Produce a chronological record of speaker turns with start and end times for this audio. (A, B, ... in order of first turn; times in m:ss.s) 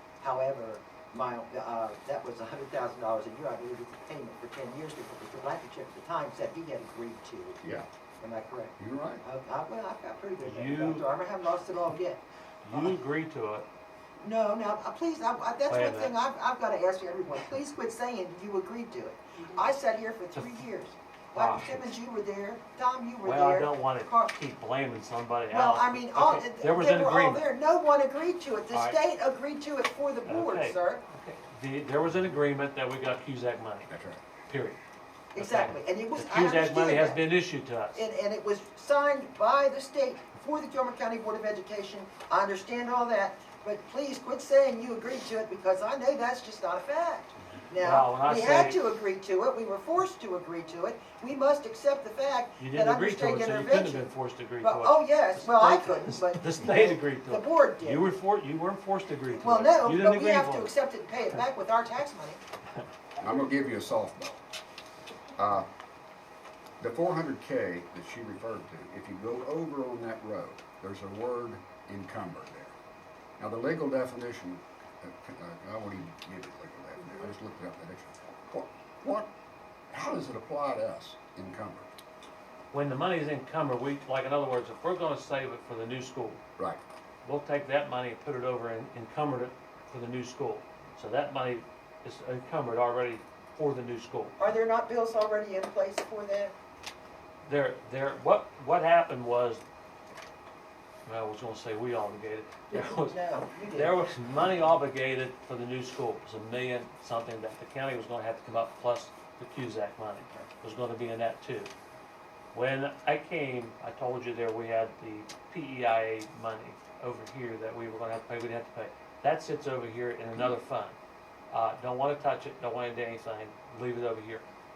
0:00.2-0:07.6 A
0:07.6-0:07.9 B
0:08.2-0:12.2 A
0:08.8-0:09.2 B
0:10.4-0:11.1 C
0:12.6-0:13.7 C
0:14.2-0:24.3 A
0:15.7-0:16.2 C
0:20.4-0:20.7 C
0:21.3-0:22.0 C
0:23.2-0:27.5 C
0:25.5-0:31.0 A
0:28.7-0:29.0 C
0:30.3-0:33.9 C
0:33.9-0:34.2 B
0:34.5-0:34.8 C
0:35.3-0:37.3 A
0:35.4-0:38.0 C
0:37.9-0:58.0 A
0:47.8-0:48.9 C
0:52.6-1:00.7 C
0:59.3-1:02.4 A
1:03.2-1:04.4 B
1:05.4-1:05.7 B
1:06.8-1:12.8 B
1:13.4-1:19.3 B
1:19.9-1:21.9 B
1:22.7-1:26.4 C
1:27.2-1:34.4 C
1:34.4-1:36.5 A
1:37.4-1:39.6 C
1:41.1-1:51.7 C
1:42.7-1:44.0 A
1:52.5-2:01.0 C
2:01.5-2:04.4 C